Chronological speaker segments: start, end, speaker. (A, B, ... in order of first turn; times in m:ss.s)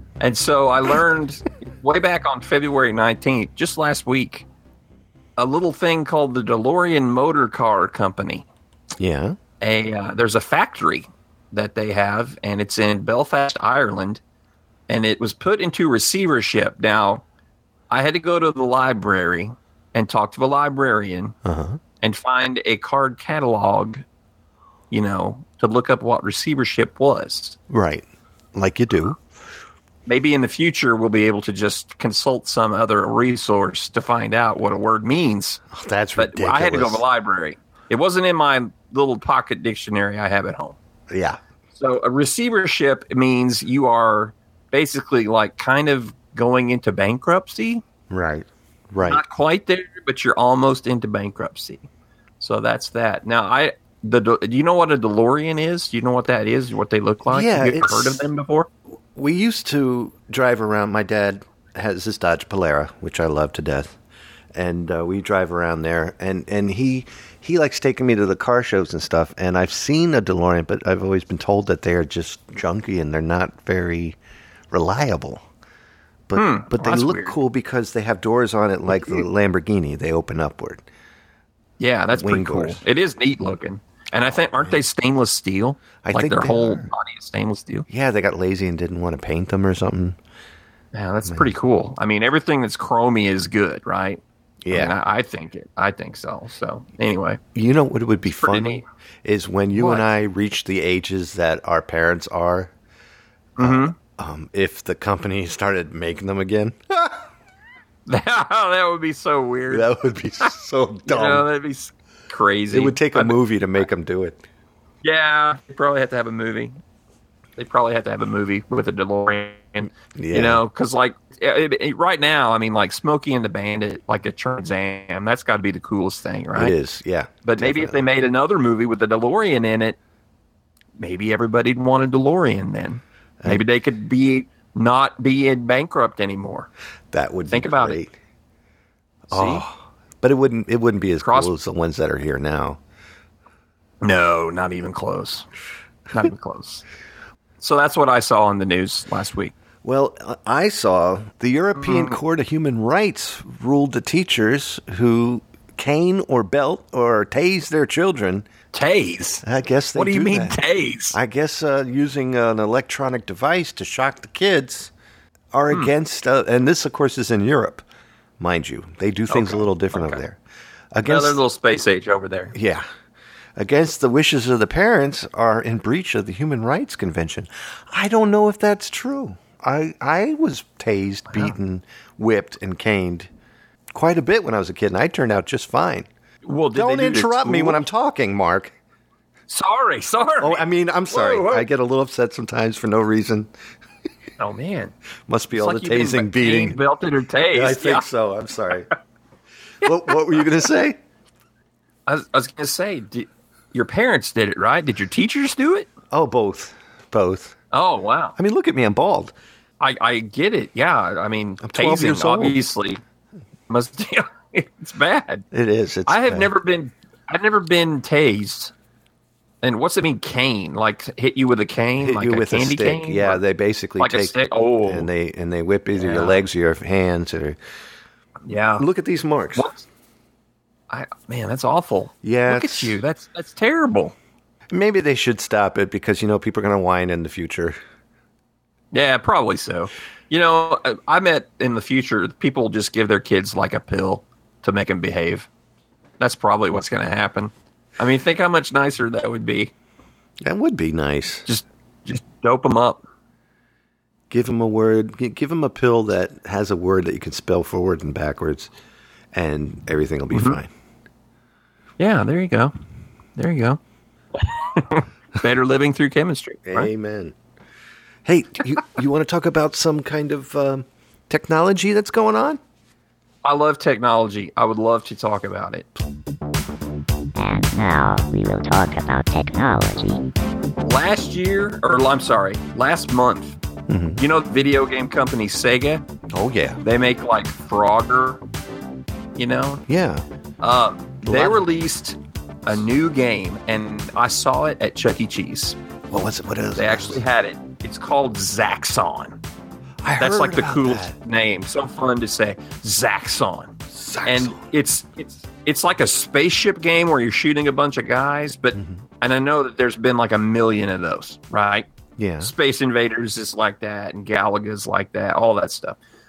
0:00.2-0:04.4 A
0:05.4-0:08.5 A
0:09.0-0:09.4 B
0:09.6-0:14.2 A
0:14.9-0:17.2 A
0:17.9-0:21.4 A
0:21.4-0:21.8 B
0:22.0-0:24.0 A
0:24.9-0:27.6 A
0:27.7-0:29.2 B
0:30.1-0:35.6 A
0:35.7-0:37.0 B
0:36.2-0:40.8 A
0:41.1-0:41.4 B
0:41.7-0:47.8 A
0:48.1-0:49.2 B
0:49.0-0:51.9 A
0:52.4-0:58.7 A
0:57.2-0:58.2 B
0:59.1-1:03.9 B
1:04.5-1:14.2 B
1:14.7-1:15.4 B
1:16.3-1:20.8 B
1:16.3-1:17.4 A
1:21.8-1:27.9 A
1:22.1-1:22.8 B
1:26.0-1:26.9 B
1:27.9-1:30.2 B
1:30.9-1:37.4 A
1:31.2-1:31.5 B
1:34.6-1:34.9 B
1:37.5-1:42.7 B
1:38.3-1:38.8 A
1:39.8-1:40.0 A
1:43.6-1:43.9 A
1:43.6-1:47.2 B
1:48.1-1:50.5 A
1:49.7-1:51.5 B
1:51.0-1:53.4 A
1:52.7-1:54.4 B
1:55.0-1:56.8 A
1:57.6-2:06.7 A
2:00.1-2:00.6 B
2:06.5-2:08.0 B
2:07.4-2:10.0 A
2:11.0-2:16.7 A
2:17.1-2:18.1 B
2:17.5-2:18.0 A
2:19.3-2:22.8 B
2:19.3-2:19.6 A
2:21.2-2:21.5 A
2:24.0-2:25.5 A
2:26.1-2:26.8 A
2:27.6-2:29.5 A
2:29.8-2:38.4 B
2:31.8-2:32.2 A
2:38.7-2:39.4 A
2:39.4-2:40.6 B
2:39.9-2:41.2 A
2:41.1-2:44.9 B
2:45.5-2:47.8 B
2:48.4-2:50.4 B
2:49.3-2:50.2 A
2:50.9-2:51.4 B
2:51.0-2:52.5 A
2:52.5-2:52.8 B
2:53.6-3:03.3 B
3:01.3-3:01.5 A
3:03.9-3:06.1 B
3:06.4-3:07.8 A
3:06.7-3:08.7 B
3:09.5-3:11.7 A
3:10.4-3:13.5 B
3:14.4-3:14.9 A
3:15.3-3:16.8 B
3:15.5-3:18.0 A
3:17.5-3:18.9 B
3:19.8-3:21.0 B
3:22.1-3:25.9 A
3:26.1-3:27.6 B
3:27.7-3:28.4 A
3:28.4-3:29.3 B
3:29.8-3:33.0 A
3:31.6-3:32.6 B
3:33.7-3:35.4 A
3:35.5-3:36.5 B
3:36.1-3:38.7 A
3:39.6-3:43.4 A
3:42.0-3:47.6 B
3:44.0-3:45.1 A
3:45.9-3:46.4 A
3:48.4-3:48.8 A
3:48.8-3:49.7 B
3:49.5-3:49.8 A
3:50.9-3:54.1 A
3:52.2-3:53.0 B
3:54.7-3:57.8 B
3:58.9-4:05.5 A
4:06.2-4:09.7 A
4:10.4-4:11.4 B
4:11.4-4:13.0 A
4:14.3-4:18.7 B
4:19.3-4:20.7 B
4:20.3-4:20.6 A
4:22.0-4:22.7 A
4:23.4-4:23.8 A
4:24.4-4:26.9 A
4:26.6-4:27.3 B
4:28.2-4:32.6 B
4:33.4-4:35.9 A
4:37.4-4:40.2 C
4:40.8-4:43.6 A
4:43.9-4:44.2 B
4:44.2-4:46.0 A
4:46.3-4:46.8 B
4:46.8-4:48.4 A
4:49.4-4:49.8 A
4:49.9-4:50.2 B
4:50.6-4:55.8 A
4:51.2-4:51.6 B
4:56.1-4:57.2 B
4:56.8-4:59.4 A
5:00.0-5:01.1 B
5:00.2-5:03.7 A
5:03.9-5:04.6 B
5:04.2-5:11.9 A
5:08.7-5:09.0 B
5:12.2-5:12.5 B
5:12.4-5:16.0 A